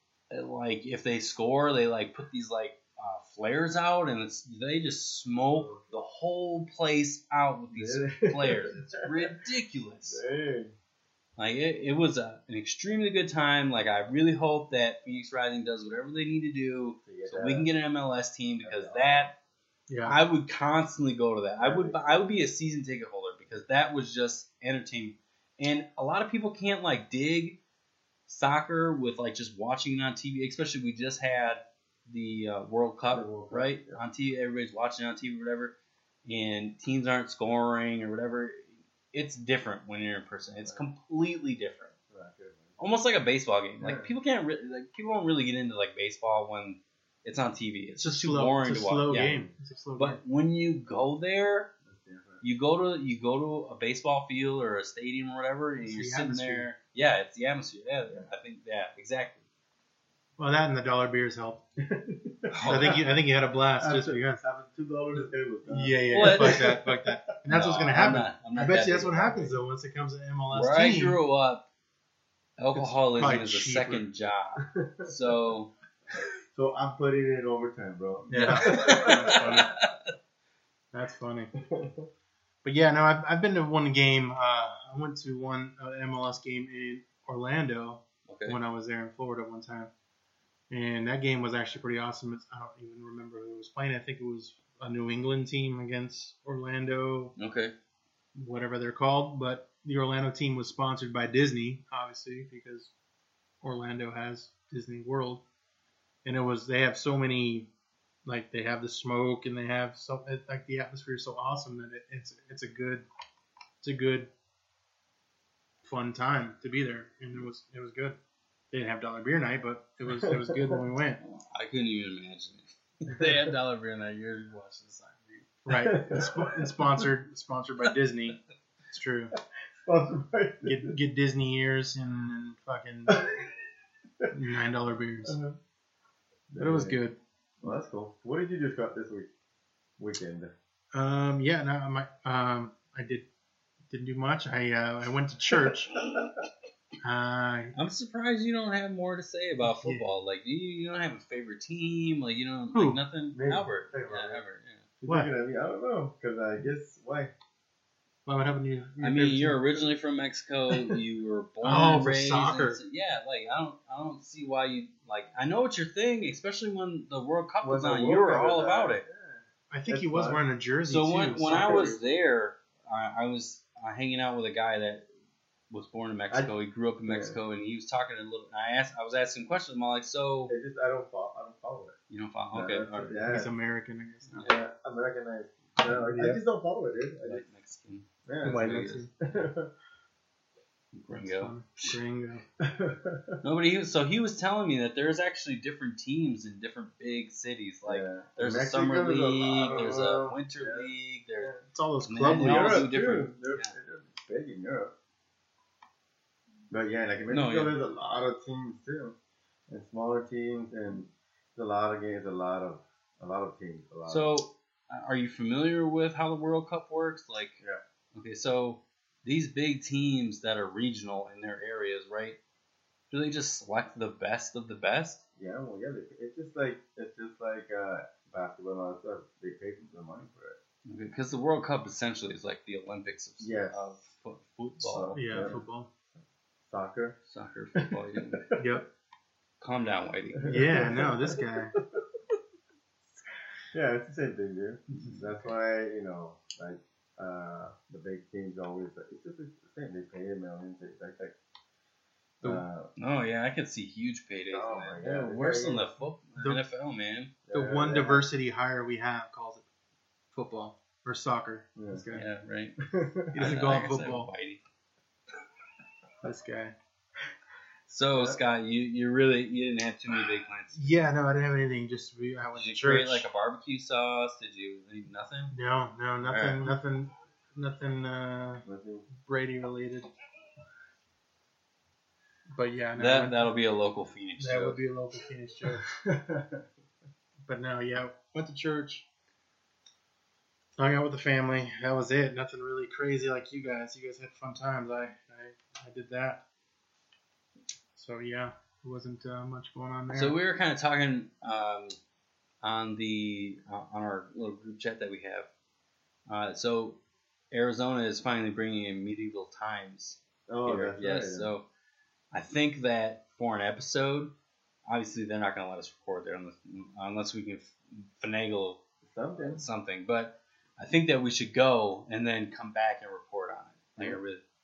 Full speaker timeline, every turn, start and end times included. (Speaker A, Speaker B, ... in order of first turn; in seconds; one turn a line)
Speaker A: 0.3-10.2
Speaker B: 5.5-5.8
Speaker B: 7.7-9.3
Speaker B: 10.1-10.7
Speaker A: 11.4-19.3
Speaker B: 17.0-17.7
Speaker B: 18.6-19.3
Speaker C: 19.9-20.2
Speaker A: 20.0-27.6
Speaker B: 21.6-22.2
Speaker A: 28.3-35.7
Speaker B: 33.1-34.0
Speaker A: 36.2-41.9
Speaker B: 42.1-42.8
Speaker A: 42.8-49.5
Speaker B: 43.8-44.1
Speaker C: 48.0-50.2
Speaker A: 50.0-51.7
Speaker B: 51.9-52.4
Speaker A: 52.4-59.4
Speaker C: 55.8-56.7
Speaker C: 60.4-61.6
Speaker B: 61.8-63.0
Speaker A: 62.5-63.1
Speaker C: 62.6-64.4
Speaker B: 63.8-66.9
Speaker C: 65.7-71.2
Speaker A: 66.1-66.8
Speaker A: 67.5-69.5
Speaker B: 68.5-69.4
Speaker A: 70.5-71.7
Speaker A: 72.6-76.2
Speaker C: 72.7-74.0
Speaker B: 74.6-75.1
Speaker B: 76.5-79.5
Speaker C: 78.3-79.7
Speaker A: 78.3-80.1
Speaker C: 80.9-81.5
Speaker B: 81.6-82.1
Speaker C: 82.6-89.9
Speaker A: 88.3-88.6
Speaker C: 90.7-97.3
Speaker A: 97.4-97.7
Speaker C: 98.3-102.9
Speaker C: 103.6-105.4
Speaker C: 106.2-107.7
Speaker C: 108.2-113.0
Speaker C: 113.8-114.3
Speaker C: 115.8-118.2
Speaker C: 118.7-121.2
Speaker B: 120.1-120.8
Speaker A: 121.5-125.5
Speaker C: 125.7-128.4
Speaker B: 125.7-126.6
Speaker C: 128.9-129.3
Speaker B: 129.8-130.9
Speaker C: 130.6-133.3
Speaker B: 133.1-133.5
Speaker C: 134.3-135.4
Speaker B: 135.2-135.6
Speaker B: 136.5-137.0
Speaker C: 136.6-137.2
Speaker B: 137.6-139.3
Speaker B: 140.0-140.5
Speaker C: 140.9-143.2
Speaker C: 143.9-145.9
Speaker B: 145.7-146.2
Speaker C: 147.0-147.7
Speaker A: 147.7-154.8
Speaker C: 149.6-150.0
Speaker C: 152.7-153.0
Speaker B: 153.3-154.4
Speaker B: 155.0-157.3
Speaker C: 158.2-159.6
Speaker A: 159.0-169.1
Speaker C: 161.6-162.8
Speaker B: 167.6-170.4
Speaker C: 169.7-171.9
Speaker A: 170.9-175.0
Speaker B: 171.4-172.0
Speaker A: 175.7-180.5
Speaker B: 177.1-177.4
Speaker B: 180.5-182.0
Speaker A: 182.1-183.2
Speaker B: 182.5-183.5
Speaker C: 183.3-184.5
Speaker A: 184.3-184.6
Speaker B: 184.4-187.4
Speaker C: 185.8-186.4
Speaker A: 187.2-189.4
Speaker B: 188.2-189.7
Speaker C: 188.4-189.1
Speaker A: 190.9-192.0
Speaker C: 191.1-192.4
Speaker B: 192.6-193.4
Speaker A: 193.4-201.5
Speaker B: 197.9-200.9
Speaker C: 201.7-202.9
Speaker A: 202.0-203.7
Speaker B: 202.3-204.9
Speaker B: 206.7-209.2
Speaker A: 207.3-207.7
Speaker B: 209.7-214.3
Speaker A: 214.1-217.6
Speaker A: 218.1-222.4
Speaker A: 223.1-225.2
Speaker B: 225.4-230.6
Speaker A: 230.8-235.5
Speaker B: 233.4-233.8
Speaker B: 234.8-235.6
Speaker C: 235.1-235.9
Speaker B: 236.7-237.2
Speaker A: 237.2-238.4
Speaker B: 237.8-238.7
Speaker C: 238.6-238.8
Speaker A: 239.6-240.6
Speaker B: 240.4-241.8
Speaker C: 240.4-241.7
Speaker B: 243.7-251.3
Speaker B: 252.4-252.9
Speaker A: 253.0-257.3
Speaker B: 254.5-255.9
Speaker C: 256.4-256.6
Speaker B: 257.5-258.2
Speaker C: 257.5-259.6
Speaker C: 260.3-262.2
Speaker B: 261.8-262.1
Speaker A: 262.1-262.8
Speaker B: 262.8-263.5
Speaker C: 263.3-264.3
Speaker A: 263.4-264.6
Speaker C: 266.2-266.7
Speaker A: 267.9-270.9
Speaker B: 268.1-268.4
Speaker C: 270.7-273.3
Speaker A: 272.5-275.5
Speaker C: 275.5-280.1
Speaker A: 276.2-276.7
Speaker B: 278.6-279.1
Speaker C: 282.5-283.5
Speaker A: 283.0-284.8
Speaker C: 284.4-285.9
Speaker B: 285.9-286.6
Speaker C: 287.4-289.1
Speaker C: 290.8-296.4
Speaker C: 297.9-300.4
Speaker A: 300.1-302.0
Speaker A: 302.6-305.5
Speaker A: 306.3-307.0
Speaker A: 307.5-311.6
Speaker B: 310.5-311.5
Speaker A: 312.3-314.3
Speaker A: 314.9-318.8
Speaker B: 319.0-319.6
Speaker A: 319.4-324.4